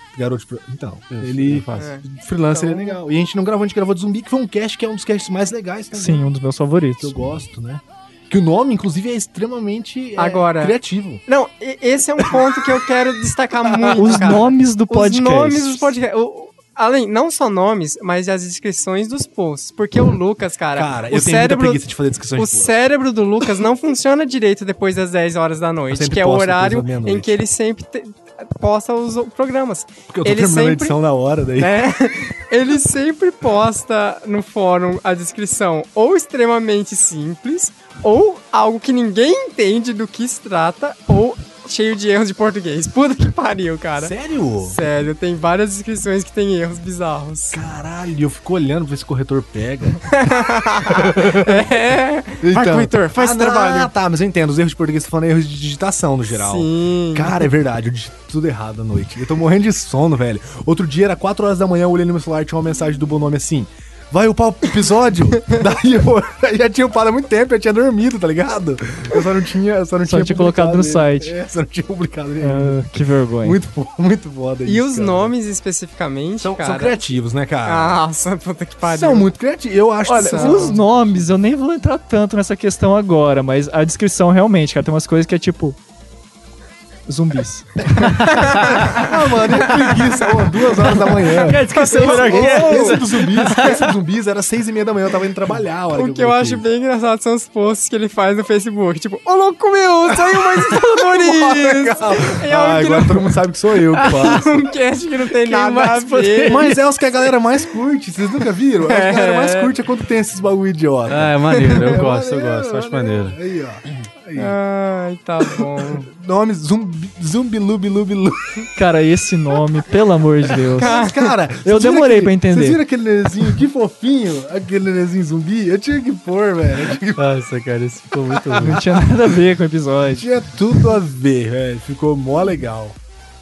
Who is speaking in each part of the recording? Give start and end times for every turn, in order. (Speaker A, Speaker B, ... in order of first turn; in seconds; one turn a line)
Speaker A: 0.1-6.2
Speaker B: 1.1-1.9
Speaker C: 1.8-3.0
Speaker D: 5.9-7.2
Speaker A: 7.0-11.2
Speaker C: 10.2-31.0
Speaker A: 13.7-14.4
Speaker D: 13.9-15.9
Speaker A: 20.7-22.8
Speaker A: 25.9-27.4
Speaker A: 30.1-31.8
Speaker C: 31.6-47.6
Speaker A: 44.0-44.8
Speaker A: 47.5-50.0
Speaker C: 50.1-53.9
Speaker A: 50.9-51.7
Speaker A: 52.4-72.8
Speaker C: 56.3-57.5
Speaker D: 70.0-71.3
Speaker D: 72.4-73.6
Speaker A: 73.4-75.3
Speaker C: 74.6-77.0
Speaker A: 76.4-78.0
Speaker C: 77.6-79.3
Speaker A: 78.8-81.2
Speaker D: 80.0-85.8
Speaker C: 80.1-80.8
Speaker D: 87.1-88.6
Speaker B: 88.2-89.0
Speaker C: 88.3-89.0
Speaker A: 88.7-96.7
Speaker B: 89.7-90.0
Speaker B: 90.9-93.9
Speaker C: 91.7-93.8
Speaker C: 95.9-103.3
Speaker A: 100.1-104.5
Speaker B: 104.0-104.4
Speaker C: 104.0-106.8
Speaker B: 105.3-106.8
Speaker A: 106.5-114.5
Speaker C: 108.8-109.7
Speaker B: 111.1-113.4
Speaker C: 114.3-116.1
Speaker A: 115.8-118.5
Speaker D: 118.8-121.0
Speaker A: 120.7-127.4
Speaker C: 120.8-121.3
Speaker D: 121.6-122.8
Speaker B: 127.2-128.8
Speaker A: 128.3-129.0
Speaker D: 128.6-130.3
Speaker A: 130.2-133.0